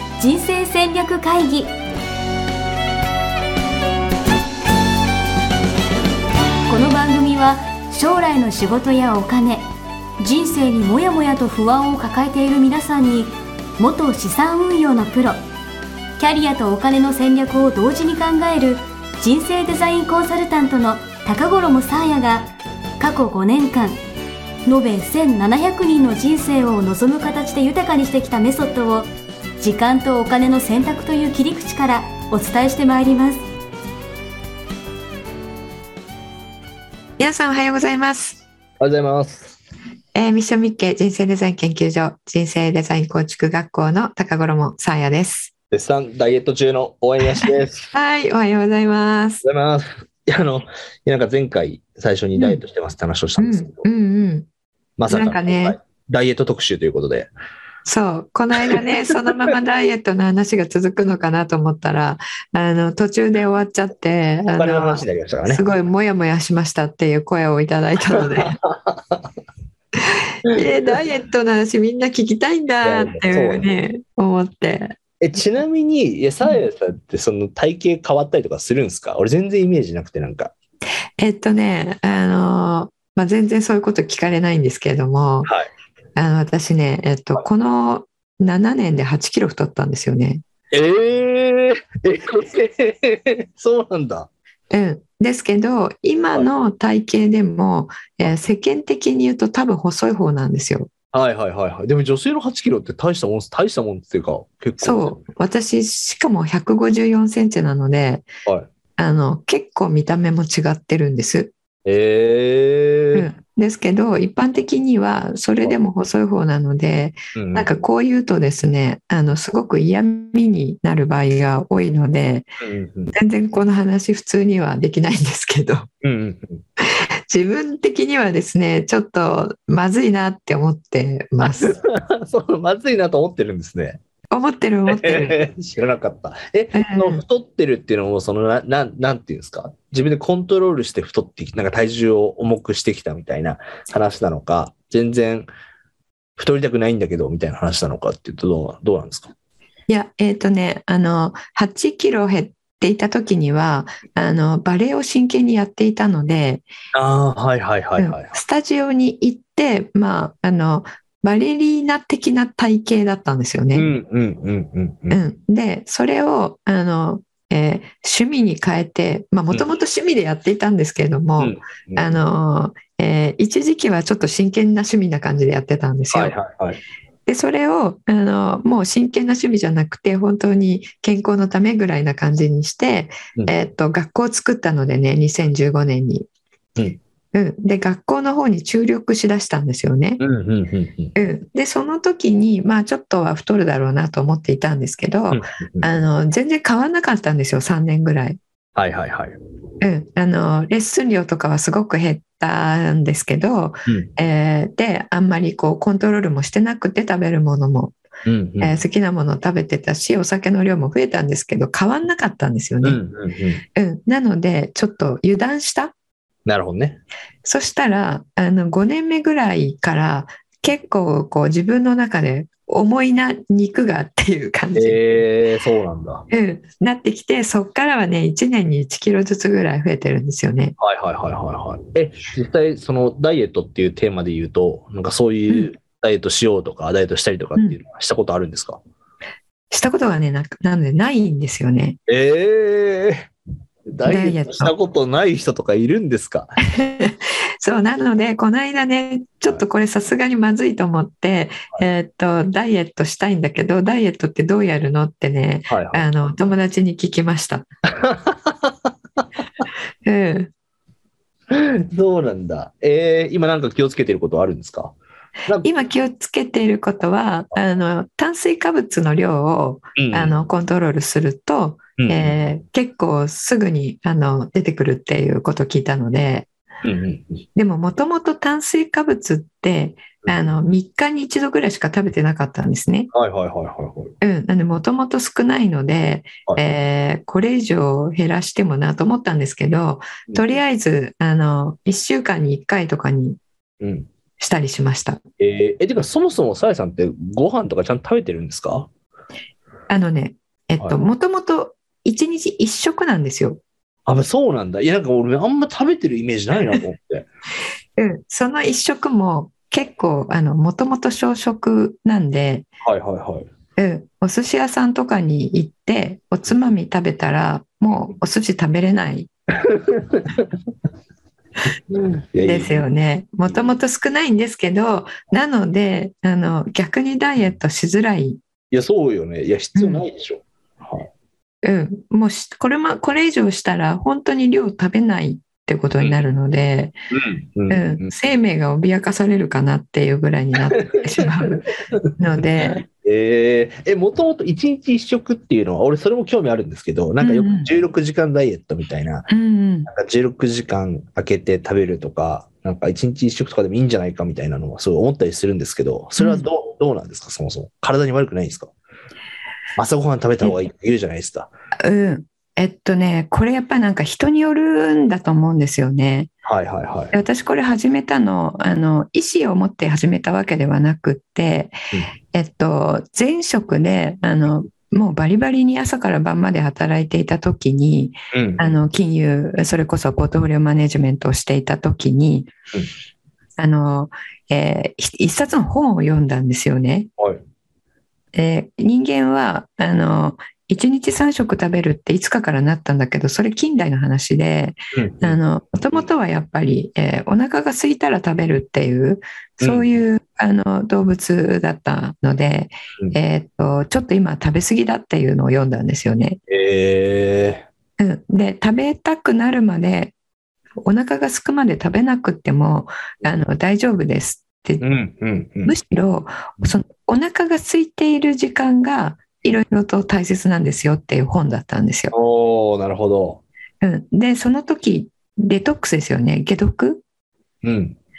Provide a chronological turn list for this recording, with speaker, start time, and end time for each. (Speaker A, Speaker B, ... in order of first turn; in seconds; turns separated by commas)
Speaker A: 0.2-1.7, Speaker A: 6.7-9.7, Speaker A: 10.2-15.4, Speaker A: 16.2-24.0, Speaker A: 24.7-29.1, Speaker A: 29.6-33.4, Speaker B: 37.2-38.4, Speaker C: 38.8-39.6, Speaker B: 40.1-45.5, Speaker C: 45.7-47.9, Speaker B: 47.4-49.4, Speaker C: 49.4-53.8, Speaker B: 52.4-52.6, Speaker B: 53.4-54.5, Speaker C: 55.0-57.3, Speaker B: 55.1-55.8, Speaker B: 57.9-68.6, Speaker C: 58.6-59.6, Speaker C: 64.6-65.7, Speaker C: 68.4-69.2, Speaker B: 70.5-75.0, Speaker C: 72.8-73.7, Speaker C: 75.2-80.5, Speaker B: 81.2-85.5, Speaker B: 86.2-90.4, Speaker C: 90.7-94.3, Speaker B: 94.7-100.9, Speaker C: 101.1-105.2, Speaker B: 104.8-108.3, Speaker B: 109.0-111.5, Speaker C: 111.8-113.3, Speaker B: 113.1-122.5, Speaker C: 117.3-117.7, Speaker C: 122.6-123.1, Speaker B: 123.1-125.9, Speaker C: 126.0-126.6, Speaker B: 126.8-131.8, Speaker C: 131.4-134.0, Speaker B: 134.3-135.4, Speaker C: 134.9-145.5, Speaker B: 136.7-137.2, Speaker C: 146.4-149.3, Speaker B: 149.9-156.7, Speaker C: 156.9-158.3, Speaker B: 158.0-163.9, Speaker C: 163.8-165.2, Speaker B: 165.1-176.3, Speaker C: 171.4-172.2, Speaker C: 176.1-176.8, Speaker B: 177.3-186.3, Speaker B: 187.3-190.2, Speaker C: 190.2-191.1, Speaker B: 191.2-198.4, Speaker C: 195.3-195.8, Speaker C: 198.8-199.4, Speaker B: 199.8-208.0, Speaker C: 208.2-208.8, Speaker B: 208.6-213.0, Speaker C: 212.8-213.6, Speaker B: 213.8-215.9, Speaker C: 216.5-217.0, Speaker B: 217.4-225.2, Speaker C: 224.8-226.3, Speaker B: 226.3-230.8, Speaker C: 230.8-238.8, Speaker B: 239.7-242.0, Speaker C: 242.1-243.3, Speaker C: 243.9-246.5, Speaker B: 244.1-244.7, Speaker B: 246.7-257.7, Speaker C: 255.7-256.0, Speaker C: 257.9-258.9, Speaker B: 260.1-260.5, Speaker C: 261.5-265.0, Speaker B: 265.6-276.5, Speaker C: 270.0-270.3, Speaker C: 272.0-272.3, Speaker C: 276.8-277.4, Speaker B: 277.6-283.1, Speaker C: 283.1-284.1, Speaker B: 284.2-293.4, Speaker C: 290.3-290.5, Speaker C: 293.8-294.1, Speaker B: 294.4-295.2, Speaker C: 295.4-298.9, Speaker B: 299.9-303.6, Speaker C: 304.1-307.3, Speaker B: 308.0-312.7, Speaker C: 312.8-313.5, Speaker B: 313.8-319.3, Speaker C: 319.6-320.5, Speaker C: 321.9-322.9, Speaker B: 322.4-328.4, Speaker C: 323.5-323.8, Speaker C: 328.7-331.1, Speaker B: 329.8-330.1, Speaker B: 331.6-336.9, Speaker C: 337.1-338.1, Speaker B: 337.7-341.6, Speaker C: 340.9-342.1, Speaker B: 342.2-342.8, Speaker C: 342.6-349.3, Speaker B: 347.2-347.7, Speaker B: 349.3-349.9, Speaker C: 349.9-358.7, Speaker B: 356.2-356.4, Speaker C: 359.8-361.5, Speaker B: 361.8-366.3, Speaker C: 366.4-367.1, Speaker B: 367.1-371.8, Speaker B: 372.3-382.5, Speaker C: 378.3-378.7, Speaker B: 383.6-387.1, Speaker B: 388.3-406.4, Speaker C: 394.9-395.4, Speaker C: 399.6-399.9, Speaker C: 406.5-407.7, Speaker B: 408.0-410.1, Speaker B: 410.8-414.8, Speaker C: 414.8-415.8, Speaker B: 415.6-422.1, Speaker C: 422.1-423.4, Speaker B: 423.8-427.0, Speaker C: 427.6-428.0